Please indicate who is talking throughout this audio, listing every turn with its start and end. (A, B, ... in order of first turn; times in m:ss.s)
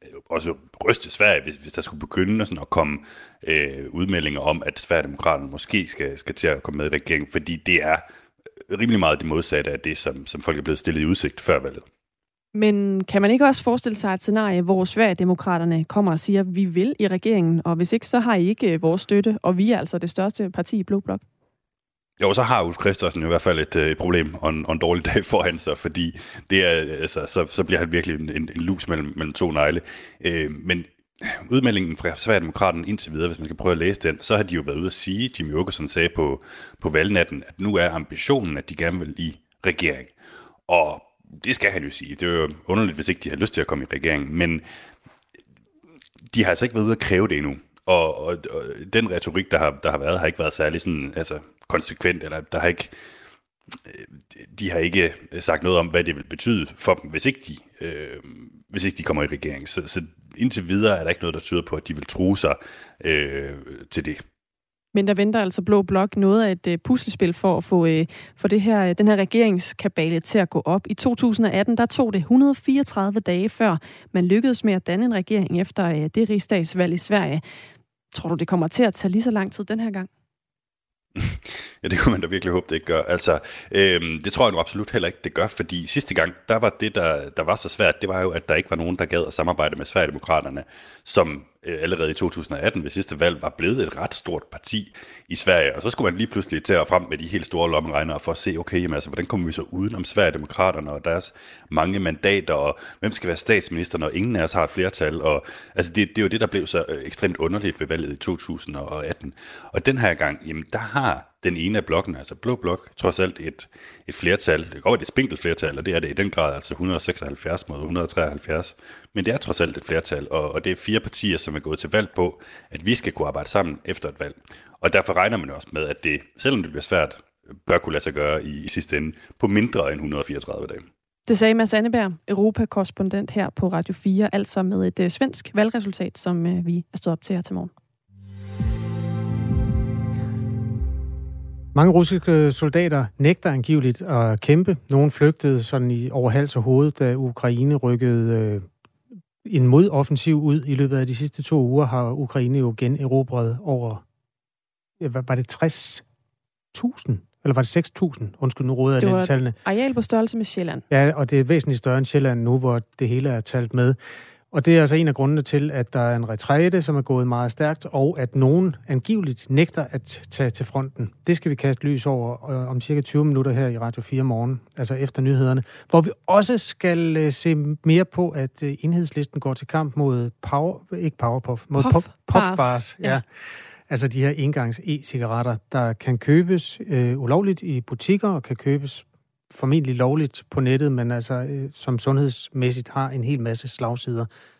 0:00.1-0:08.0 A
0:08.7-0:11.8 A
0:12.5-0:21.2 B
0:22.2-0:40.1 A
0:40.7-0:44.6 A
0:46.3-0:52.9 A
0:53.9-1:04.2 A
1:04.9-1:17.4 B
1:18.1-1:20.1 B
1:21.2-2:10.9 A
2:11.3-2:17.7 B
2:21.7-2:28.7 C
2:29.4-2:34.0 C
2:35.0-2:36.0 C
2:36.7-2:39.5 C
2:39.0-2:40.8 B
2:40.9-2:44.0 C
2:44.5-3:03.3 C
3:01.8-3:03.2 B
3:03.9-3:14.3 C